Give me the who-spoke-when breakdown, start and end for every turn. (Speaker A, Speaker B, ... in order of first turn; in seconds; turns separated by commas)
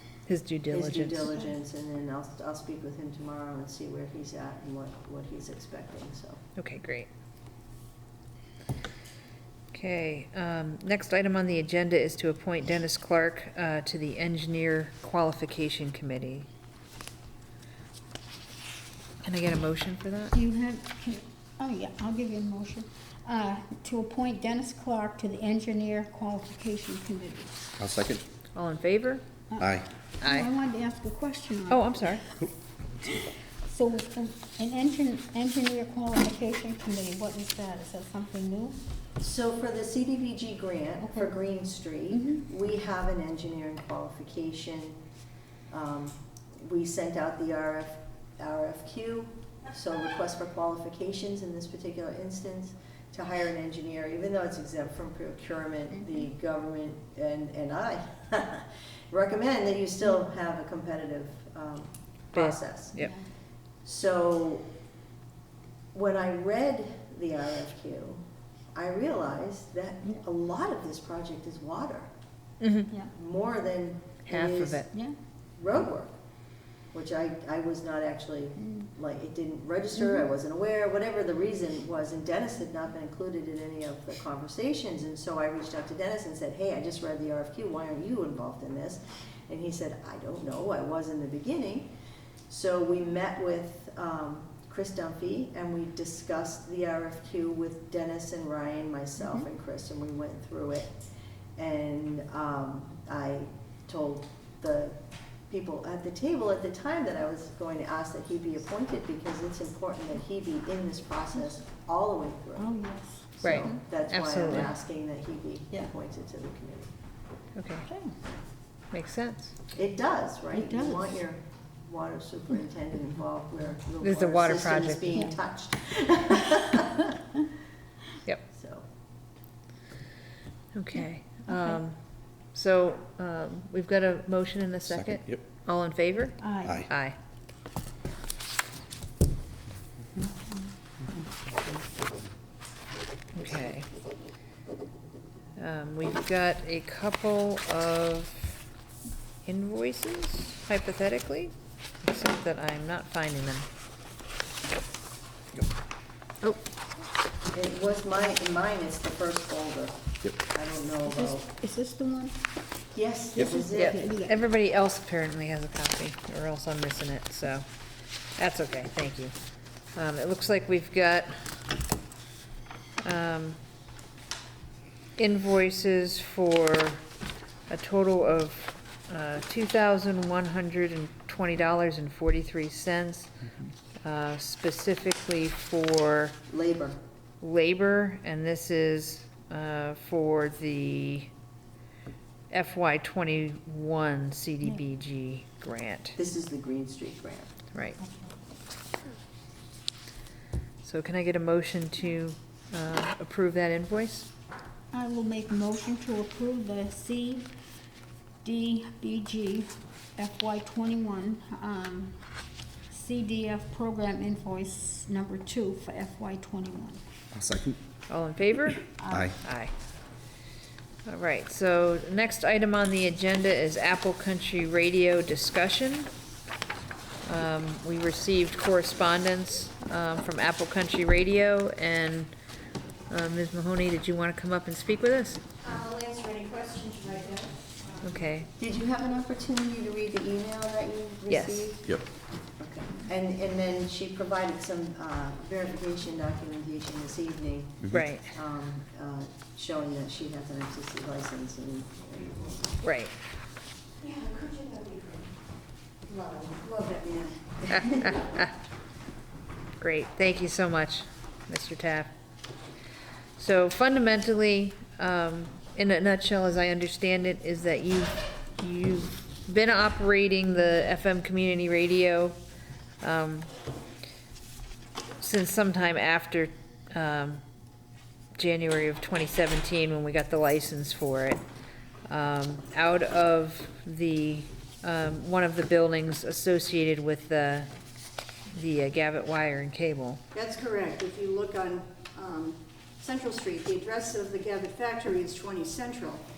Speaker A: 0.3-1.2, Speaker B: 0.7-6.4, Speaker A: 6.5-7.1, Speaker A: 9.7-16.5, Speaker A: 19.2-20.3, Speaker C: 20.3-27.7, Speaker D: 27.8-28.2, Speaker A: 28.5-29.2, Speaker C: 29.5-32.5, Speaker D: 29.6-29.9, Speaker A: 30.2-30.5, Speaker A: 31.7-32.2, Speaker C: 33.1-38.8, Speaker B: 39.2-45.0, Speaker B: 45.7-63.0, Speaker A: 62.3-63.1, Speaker C: 63.0-63.2, Speaker B: 63.8-64.7, Speaker B: 65.9-68.2, Speaker B: 68.7-72.1, Speaker A: 72.6-72.9, Speaker B: 73.1-74.8, Speaker A: 74.2-74.9, Speaker B: 75.6-76.1, Speaker B: 76.9-91.9, Speaker B: 92.5-100.9, Speaker B: 101.6-105.0, Speaker B: 105.5-112.7, Speaker C: 112.6-113.8, Speaker B: 113.3-116.9, Speaker A: 113.4-114.7, Speaker A: 117.5-117.9, Speaker C: 117.9-118.1, Speaker A: 118.9-119.5, Speaker B: 119.7-127.2, Speaker C: 120.5-121.2, Speaker A: 124.0-125.2, Speaker B: 128.5-128.8, Speaker A: 130.7-132.0, Speaker C: 131.5-131.8, Speaker A: 132.5-137.2, Speaker D: 134.9-135.4, Speaker C: 136.4-136.8, Speaker D: 136.6-136.9, Speaker C: 140.2-140.7, Speaker A: 143.3-143.9, Speaker A: 145.6-148.6, Speaker A: 149.4-153.7, Speaker B: 157.5-161.4, Speaker C: 161.1-162.4, Speaker B: 162.9-164.2, Speaker C: 163.3-164.4, Speaker A: 163.7-167.6, Speaker A: 168.4-169.3, Speaker A: 169.9-171.3, Speaker A: 173.0-173.6, Speaker A: 175.2-177.0, Speaker A: 177.7-183.3, Speaker A: 184.0-186.4, Speaker B: 186.5-187.0, Speaker A: 187.4-191.3, Speaker A: 192.5-196.2, Speaker B: 196.2-197.5, Speaker A: 197.7-198.0, Speaker C: 198.0-198.3, Speaker A: 200.8-204.3, Speaker C: 204.9-207.5, Speaker C: 208.4-212.2, Speaker C: 212.9-217.0, Speaker D: 217.3-217.8, Speaker A: 218.1-219.7, Speaker C: 219.0-219.3, Speaker D: 219.1-219.3, Speaker A: 221.1-226.1, Speaker A: 227.2-232.3, Speaker A: 233.1-235.4, Speaker E: 235.7-237.4, Speaker A: 238.0-238.5, Speaker B: 238.6-241.9, Speaker A: 241.3-241.7, Speaker B: 242.6-252.7, Speaker A: 247.9-248.3, Speaker A: 252.8-253.1, Speaker B: 256.8-257.1, Speaker A: 257.7-258.5, Speaker A: 259.8-262.1, Speaker A: 263.4-272.4, Speaker A: 273.0-273.5, Speaker A: 275.2-277.4, Speaker A: 278.4-281.4, Speaker A: 282.1-287.7, Speaker A: 288.5-290.2, Speaker E: 290.3-292.5, Speaker E: 293.0-296.2